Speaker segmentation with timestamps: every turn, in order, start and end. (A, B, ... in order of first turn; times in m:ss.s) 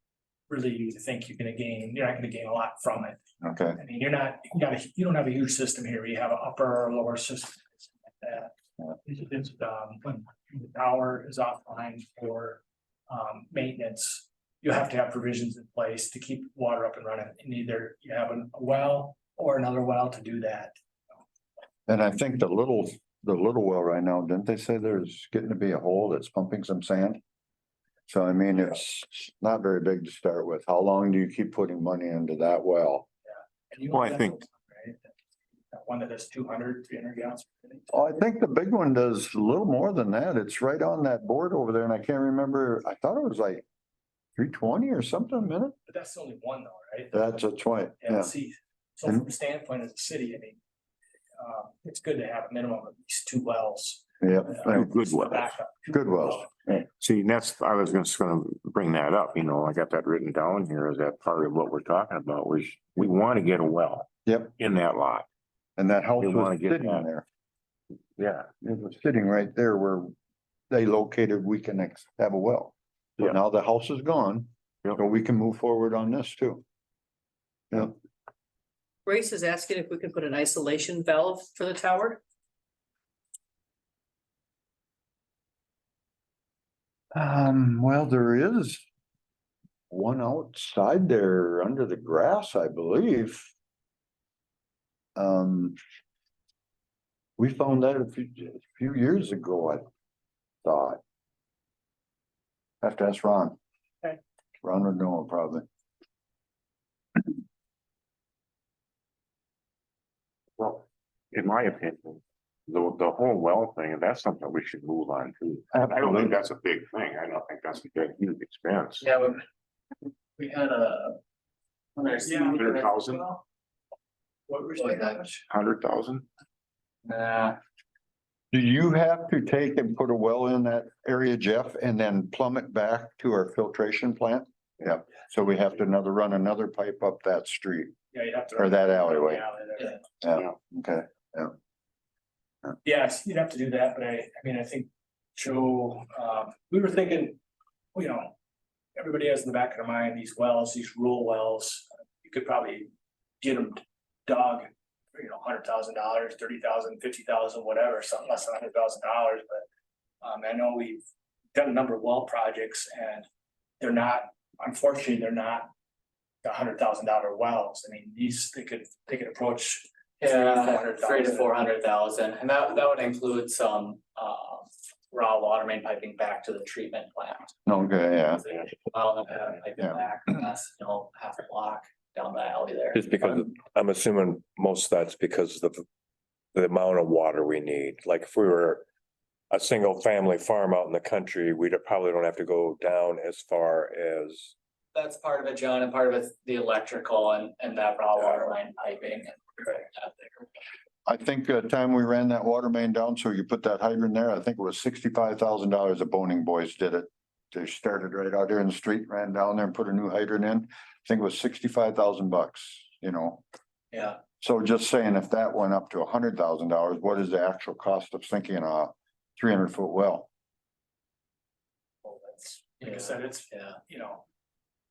0:00.5-0:03.2 A
0:03.4-0:03.8 B
0:03.8-0:08.5 A
0:09.0-0:20.8 A
0:21.9-0:27.2 B
0:28.1-0:33.1 B
0:33.3-0:35.1 A
0:33.9-0:34.4 C
0:35.7-0:38.0 A
0:37.9-0:43.6 B
0:44.4-0:45.8 B
0:45.9-0:47.4 A
0:47.1-0:48.3 B
0:48.0-0:50.6 A
0:51.4-0:56.5 A
0:54.2-0:54.9 B
0:54.8-0:55.5 C
0:55.9-0:56.8 B
0:57.0-1:05.3 C
1:04.3-1:04.5 B
1:05.8-1:07.2 B
1:06.2-1:07.1 C
1:08.2-1:08.5 C
1:08.6-1:10.1 B
1:10.7-1:16.6 B
1:19.1-1:22.2 D
1:27.1-1:28.8 B
1:29.9-1:33.5 B
1:35.2-1:35.8 B
1:37.4-1:39.8 B
1:40.6-1:41.0 B
1:42.8-1:43.6 B
1:44.6-1:45.7 B
1:50.6-1:59.1 C
1:55.7-1:56.3 B
1:59.0-1:59.4 E
2:00.4-2:01.2 E
2:02.0-2:03.4 E
2:02.2-2:02.7 A
2:02.5-2:03.2 C
2:04.5-2:05.4 A
2:04.8-2:05.2 E
2:05.5-2:06.2 C
2:07.0-2:07.6 E
2:08.5-2:18.0 B
2:18.1-2:20.0 A
2:18.6-2:19.4 B
2:20.2-2:21.5 B
2:22.8-2:27.4 A
2:28.0-2:28.3 A
2:29.0-2:32.9 A
2:33.4-2:39.6 A
2:40.2-2:43.3 A
2:43.8-2:45.7 A
2:46.4-2:51.5 A
2:50.2-2:57.6 E
2:57.7-2:58.4 B
2:58.4-3:03.1 E
3:02.9-3:05.8 F
3:06.5-3:08.9 F
3:09.5-3:14.5 F
3:14.9-3:20.5 E
3:21.1-3:33.4 B
3:33.9-3:34.2 E
3:34.4-3:40.3 B
3:42.0-3:44.2 A
3:42.8-3:43.8 E